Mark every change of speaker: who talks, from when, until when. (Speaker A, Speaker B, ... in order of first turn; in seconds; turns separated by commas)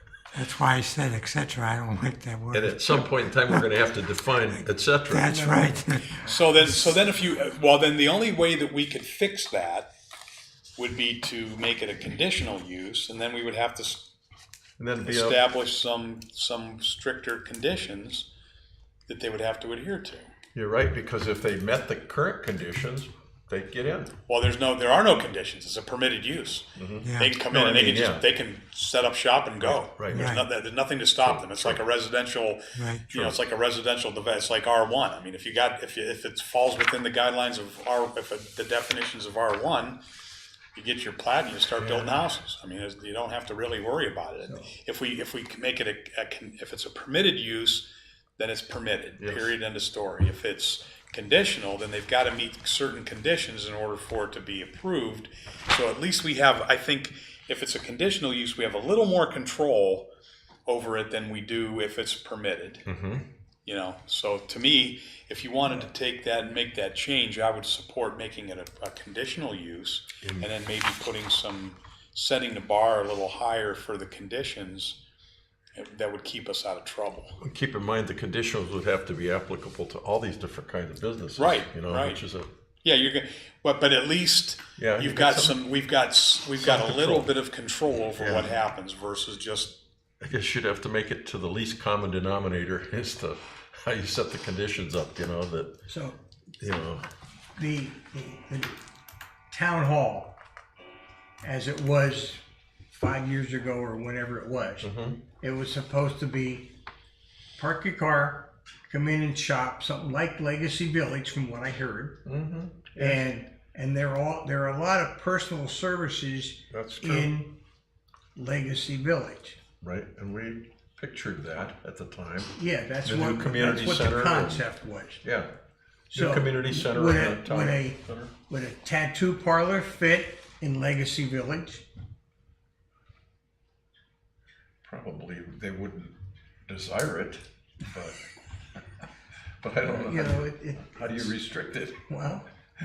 Speaker A: 0.3-3.6, Speaker B: 2.5-5.8, Speaker A: 5.1-6.2, Speaker C: 5.1-6.2, Speaker D: 6.2-9.9, Speaker D: 10.8-14.1, Speaker B: 14.8-15.4, Speaker D: 15.0-18.3, Speaker D: 19.1-20.3, Speaker B: 20.6-24.1, Speaker D: 24.3-40.0, Speaker B: 26.8-28.2, Speaker A: 27.0-27.4, Speaker B: 29.6-30.3, Speaker A: 30.1-30.4, Speaker B: 31.2-31.8, Speaker A: 32.8-33.1, Speaker B: 33.1-33.4, Speaker D: 40.8-60.1, Speaker B: 41.8-42.1, Speaker B: 49.2-49.5, Speaker D: 60.7-62.9, Speaker B: 62.9-63.2, Speaker D: 63.6-75.0, Speaker B: 70.2-70.5, Speaker D: 75.8-77.4, Speaker B: 77.4-82.5, Speaker D: 81.4-82.2, Speaker D: 82.8-89.8, Speaker B: 84.8-85.6, Speaker B: 86.7-87.3, Speaker B: 88.2-88.5, Speaker B: 90.2-95.8, Speaker C: 95.9-96.2, Speaker B: 96.6-97.0, Speaker C: 97.6-98.8, Speaker C: 99.5-100.4, Speaker C: 101.4-106.8, Speaker B: 104.8-105.2, Speaker C: 107.6-112.2, Speaker B: 112.2-113.2, Speaker C: 113.0-117.6, Speaker B: 116.7-117.3, Speaker C: 118.3-119.6, Speaker B: 119.8-124.7, Speaker C: 122.5-125.2, Speaker B: 125.2-125.5, Speaker B: 126.1-128.3, Speaker C: 126.1-131.9, Speaker B: 134.8-136.1, Speaker B: 136.7-138.2, Speaker B: 139.6-142.1, Speaker C: 139.8-141.3, Speaker C: 142.1-142.5